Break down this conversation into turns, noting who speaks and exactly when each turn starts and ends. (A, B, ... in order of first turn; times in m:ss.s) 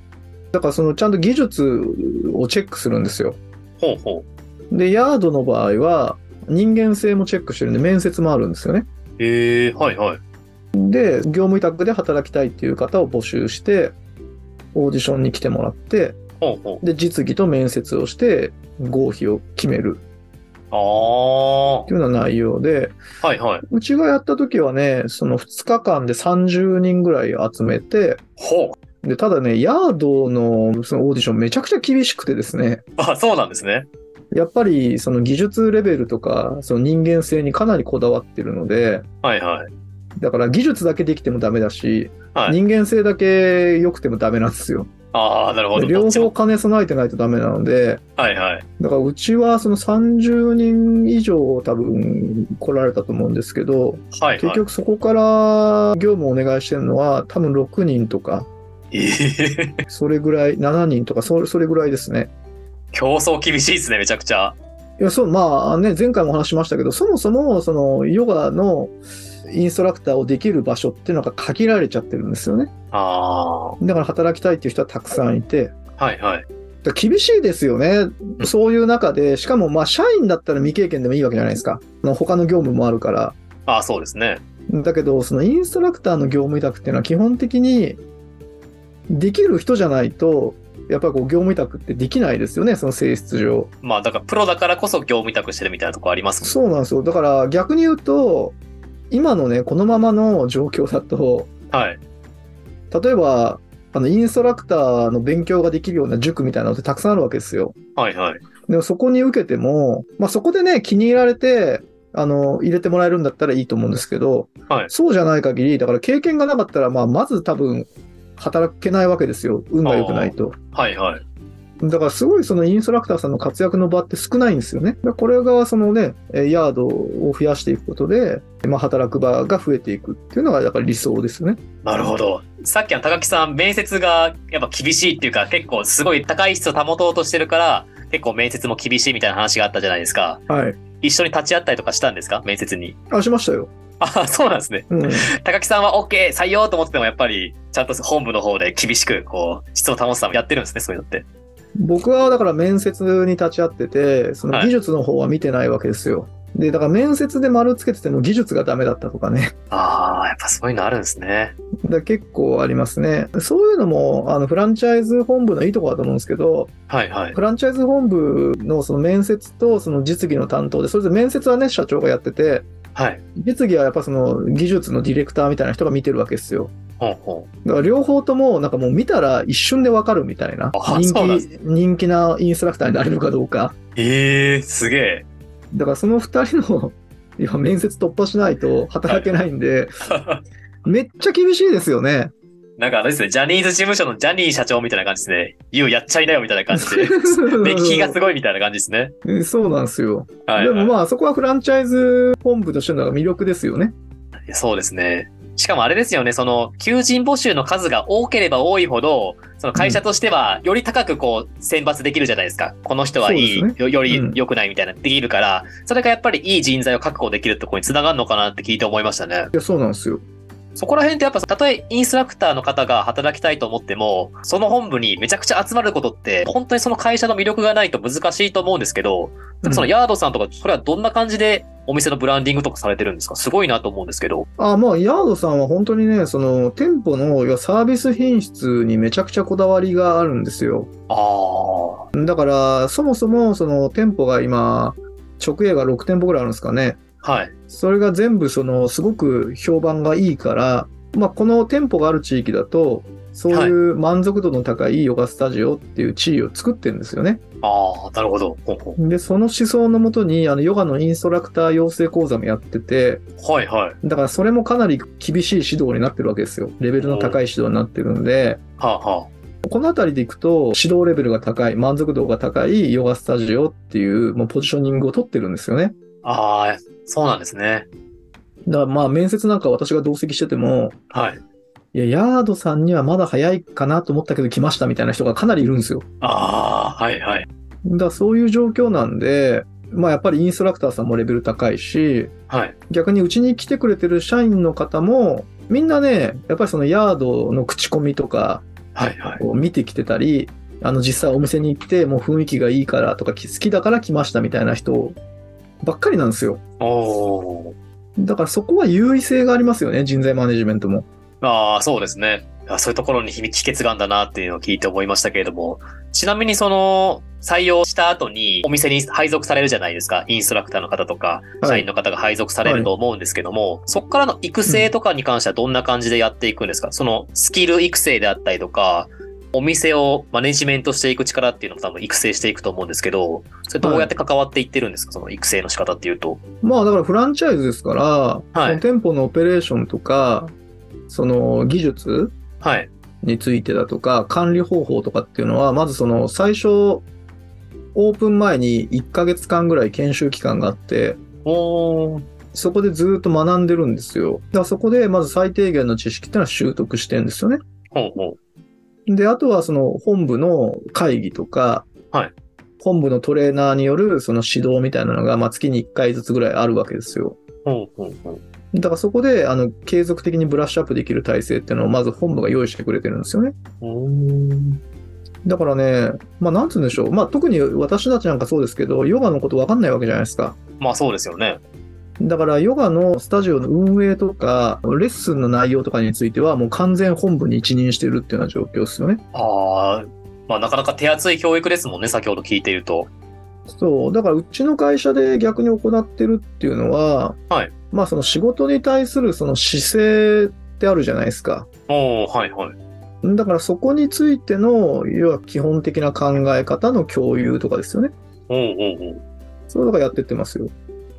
0:00.5-0:03.4 A
0:03.8-0:04.3 B
0:04.7-0:08.9 A
0:09.2-0:10.2 B
0:10.7-0:13.9 A
0:14.7-0:16.2 A
0:16.4-0:16.8 B
0:16.8-0:20.0 A
0:20.7-0:21.9 B
0:21.9-0:23.0 A
0:23.2-0:23.6 B
0:23.7-0:28.2 A
0:28.4-0:28.8 B
0:29.0-0:32.8 A
0:33.0-0:33.9 B
0:34.3-0:39.0 A
0:39.2-0:39.7 B
0:40.2-0:44.9 A
0:45.1-0:46.3 B
0:45.7-0:48.0 A
0:48.2-0:48.6 B
0:48.8-0:58.5 A
0:54.1-0:54.6 B
0:58.9-0:59.8 B
0:59.9-1:02.3 A
1:02.9-1:04.6 B
1:05.0-1:12.7 A
1:12.9-1:13.8 B
1:13.8-1:15.7 A
1:16.0-1:16.4 B
1:16.8-1:23.4 A
1:23.7-1:24.4 B
1:24.7-1:28.0 A
1:29.1-1:33.7 A
1:33.8-1:36.5 B
1:36.4-1:38.6 A
1:39.1-1:41.5 A
1:41.7-1:42.0 B
1:42.9-1:47.7 A
1:48.0-1:48.4 B
1:48.7-2:00.5 A
1:59.8-2:01.2 B
2:01.8-2:11.6 A
2:11.8-2:20.4 B
2:20.5-2:20.8 A
2:21.0-2:23.0 B
2:23.1-2:23.7 A
2:24.0-2:31.2 B
2:24.9-2:25.3 A
2:31.8-2:39.5 A
2:39.7-2:41.5 B
2:41.8-2:46.7 A
2:46.9-2:47.4 B
2:47.3-2:52.7 A
2:52.9-2:53.2 B
2:53.4-2:56.7 A
2:57.0-2:57.5 B
2:57.6-3:03.7 A
3:00.7-3:01.4 B
3:04.0-3:05.2 B
3:05.7-3:09.9 A
3:10.1-3:10.4 B
3:10.8-3:12.3 A
3:12.8-3:19.1 B
3:16.7-3:18.2 A
3:19.2-3:23.9 A
3:20.5-3:21.0 B
3:24.5-3:39.5 B
3:29.8-3:30.0 A
3:33.2-3:34.4 A
3:39.5-3:40.2 A
3:40.8-3:54.4 B
3:49.6-3:49.9 A
3:54.6-4:00.9 A
4:01.1-4:02.1 B
4:02.1-4:07.0 A
4:07.2-4:07.5 B
4:07.7-4:17.4 A
4:13.5-4:13.8 B
4:17.6-4:19.0 B
4:19.0-4:23.2 A
4:23.4-4:24.0 B
4:24.0-4:28.6 A
4:27.0-4:27.4 B
4:28.8-4:29.3 B
4:29.6-4:35.9 A
4:36.2-4:37.9 B
4:38.6-4:41.0 A
4:41.1-4:41.4 B
4:41.9-4:46.0 A
4:46.2-4:47.5 B
4:47.8-4:52.3 A
4:52.5-4:52.7 B
4:52.9-4:58.6 A
4:58.9-4:59.4 B
4:59.4-5:05.2 A
5:05.8-5:06.6 A
5:06.8-5:07.7 B
5:08.2-5:11.0 A
5:11.4-5:36.4 B
5:21.6-5:21.9 A
5:22.6-5:22.9 A
5:33.8-5:34.1 A
5:36.6-5:40.5 A
5:38.5-5:38.8 B
5:41.1-5:42.3 A
5:42.6-5:42.9 B
5:43.2-5:47.0 A
5:47.9-5:51.2 A
5:51.4-5:52.2 B
5:52.5-5:57.6 A
5:57.9-5:58.4 B
5:59.1-6:01.9 A
6:02.8-6:07.4 A
6:07.6-6:08.4 B
6:08.7-6:13.5 A
6:13.8-6:14.8 B
6:15.4-6:20.6 A
6:20.8-6:21.6 B
6:22.2-6:29.2 A
6:29.3-6:33.1 B
6:33.7-6:37.4 A
6:37.9-6:41.7 A
6:41.9-6:42.8 B
6:43.2-6:48.1 A
6:48.5-6:49.2 B
6:49.7-6:50.7 A